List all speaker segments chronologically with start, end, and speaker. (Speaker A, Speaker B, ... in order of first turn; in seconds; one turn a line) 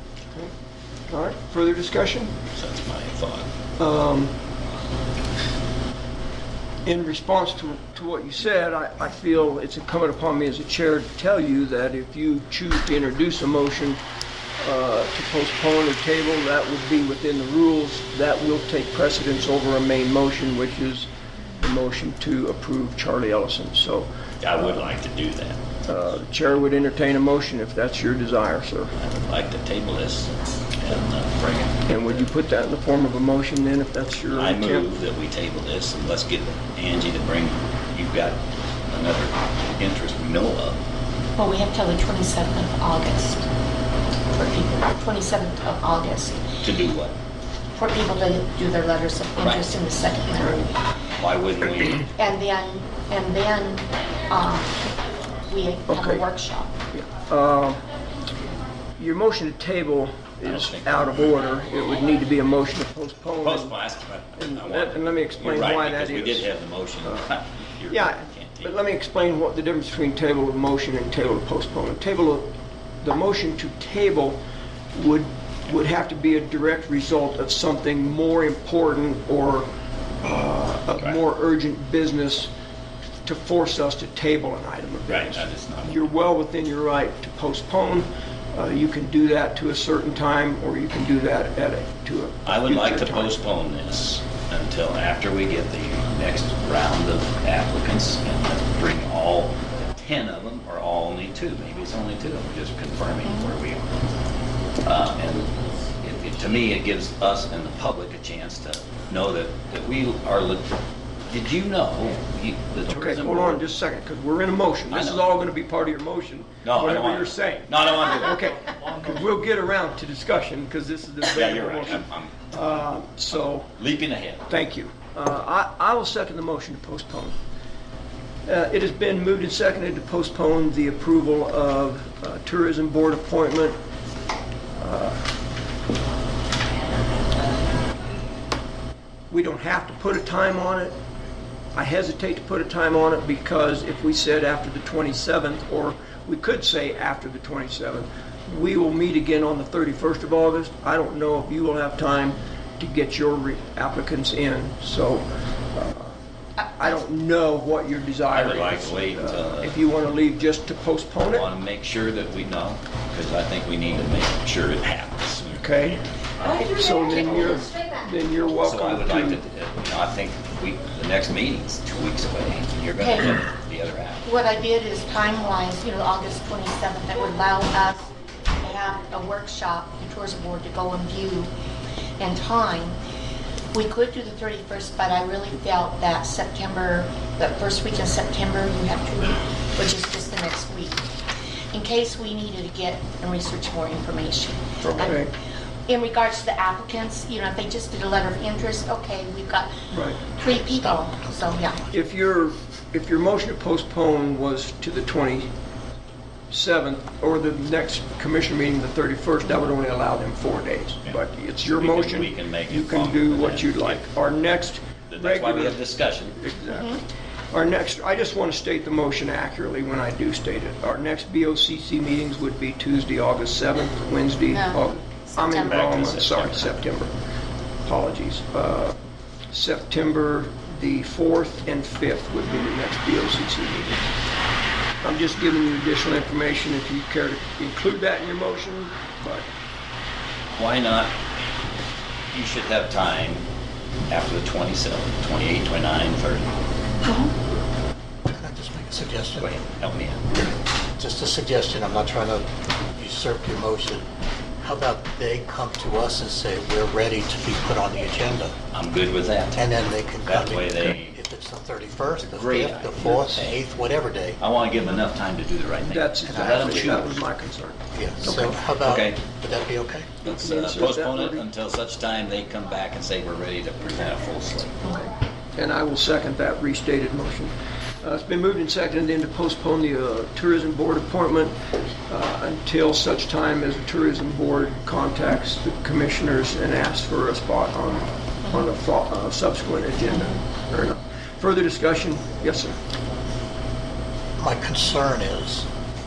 Speaker A: 1.1-2.4
Speaker B: 2.5-3.5
Speaker A: 3.8-4.3
Speaker A: 6.8-14.0
Speaker A: 14.6-24.1
Speaker B: 24.4-25.6
Speaker A: 25.9-28.9
Speaker B: 29.0-32.3
Speaker A: 31.9-34.9
Speaker B: 34.4-40.8
Speaker C: 41.4-43.4
Speaker C: 44.3-46.5
Speaker B: 46.6-47.1
Speaker C: 47.7-50.7
Speaker B: 49.4-49.8
Speaker B: 51.2-52.0
Speaker C: 52.1-54.9
Speaker C: 55.5-56.7
Speaker A: 55.9-56.2
Speaker A: 56.9-57.8
Speaker A: 59.0-63.8
Speaker B: 60.5-61.3
Speaker B: 63.4-68.8
Speaker A: 64.4-66.5
Speaker A: 67.9-74.4
Speaker A: 74.9-79.7
Speaker A: 80.2-82.5
Speaker A: 83.2-93.3
Speaker B: 85.1-86.1
Speaker B: 92.5-103.9
Speaker B: 104.8-110.7
Speaker B: 111.3-113.6
Speaker A: 112.9-123.7
Speaker B: 114.9-115.3
Speaker B: 116.6-118.4
Speaker B: 121.2-124.5
Speaker A: 124.5-127.3
Speaker A: 128.4-133.8
Speaker A: 134.8-135.2
Speaker A: 139.3-140.9
Speaker A: 141.7-156.2
Speaker C: 156.6-157.0
Speaker A: 156.8-161.5
Speaker B: 158.3-159.8
Speaker B: 161.3-166.6
Speaker A: 165.5-166.0
Speaker C: 166.4-167.7
Speaker A: 166.6-169.4
Speaker B: 168.6-174.2
Speaker C: 173.0-173.4
Speaker C: 174.2-181.5
Speaker C: 182.2-183.0
Speaker C: 183.7-191.0
Speaker C: 191.7-195.2
Speaker B: 194.8-195.1
Speaker A: 195.0-195.3
Speaker C: 195.9-201.8
Speaker A: 199.9-200.2
Speaker D: 200.4-201.9
Speaker A: 201.9-205.5
Speaker A: 206.5-215.8
Speaker B: 211.6-214.0
Speaker B: 215.1-216.4
Speaker A: 216.4-227.1
Speaker C: 216.7-217.0
Speaker C: 224.5-224.8
Speaker C: 225.3-225.7
Speaker B: 225.6-226.8
Speaker A: 227.8-228.9
Speaker A: 229.5-234.0
Speaker A: 235.0-239.5
Speaker B: 240.5-241.2
Speaker B: 242.3-243.4
Speaker B: 244.1-246.5
Speaker C: 247.0-247.3
Speaker D: 248.3-249.5
Speaker B: 249.4-250.3
Speaker D: 250.9-254.0
Speaker D: 254.6-258.5
Speaker B: 258.7-259.7
Speaker D: 259.5-264.4
Speaker B: 260.2-261.2
Speaker B: 262.2-263.6
Speaker B: 264.4-267.2
Speaker A: 265.9-268.6
Speaker D: 266.3-267.1
Speaker D: 267.9-270.2
Speaker B: 268.8-269.2
Speaker B: 270.2-274.8
Speaker A: 270.2-271.4
Speaker A: 275.6-281.5
Speaker A: 282.1-292.8
Speaker C: 288.4-288.7
Speaker C: 290.1-290.4
Speaker D: 294.4-295.6